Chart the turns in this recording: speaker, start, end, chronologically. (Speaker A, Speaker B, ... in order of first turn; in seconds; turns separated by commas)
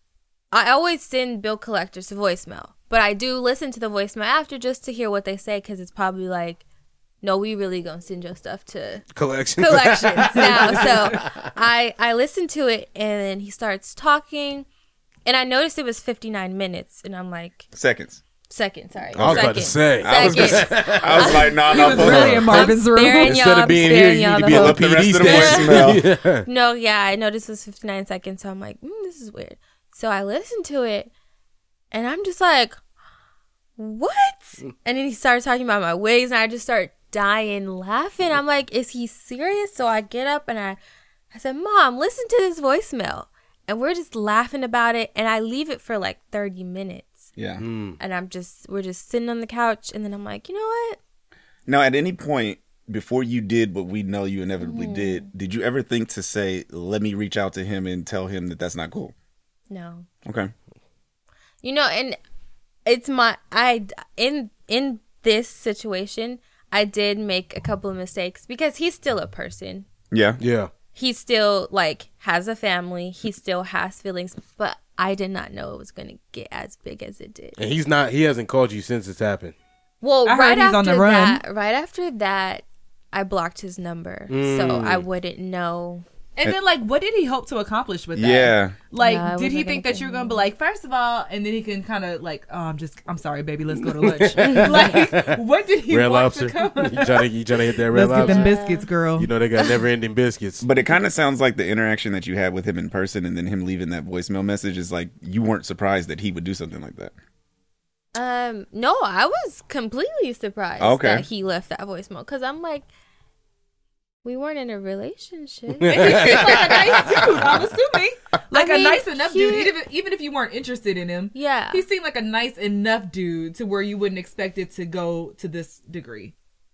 Speaker A: 0.5-6.6, Speaker A: 7.2-14.7, Speaker B: 9.2-11.5, Speaker A: 15.3-17.7, Speaker C: 17.7-18.2, Speaker A: 18.5-31.1, Speaker B: 19.1-26.5, Speaker C: 19.1-22.7, Speaker D: 21.6-23.4, Speaker C: 24.4-26.1, Speaker A: 31.9-32.8, Speaker A: 33.8-40.8, Speaker A: 41.3-47.3, Speaker C: 47.4-47.6, Speaker B: 47.6-48.0, Speaker A: 48.0-51.0, Speaker C: 51.7-59.1, Speaker A: 54.6-55.3, Speaker A: 59.7-60.1, Speaker C: 60.2-60.5, Speaker A: 61.6-62.2, Speaker A: 62.9-69.9, Speaker C: 70.1-70.4, Speaker B: 70.4-70.7, Speaker A: 70.9-77.6, Speaker B: 77.6-79.5, Speaker A: 80.0-86.0, Speaker D: 80.3-81.4, Speaker B: 84.3-85.1, Speaker D: 86.4-97.3, Speaker C: 88.2-88.8, Speaker A: 89.0-90.5, Speaker B: 93.8-98.6, Speaker A: 94.4-94.7, Speaker D: 97.9-99.3, Speaker A: 98.2-98.9, Speaker B: 99.2-100.7, Speaker C: 100.6-107.1, Speaker A: 108.1-112.9, Speaker C: 110.8-111.3, Speaker A: 114.2-116.5, Speaker B: 115.8-117.3, Speaker D: 115.9-126.3, Speaker A: 118.5-119.7, Speaker A: 121.3-121.8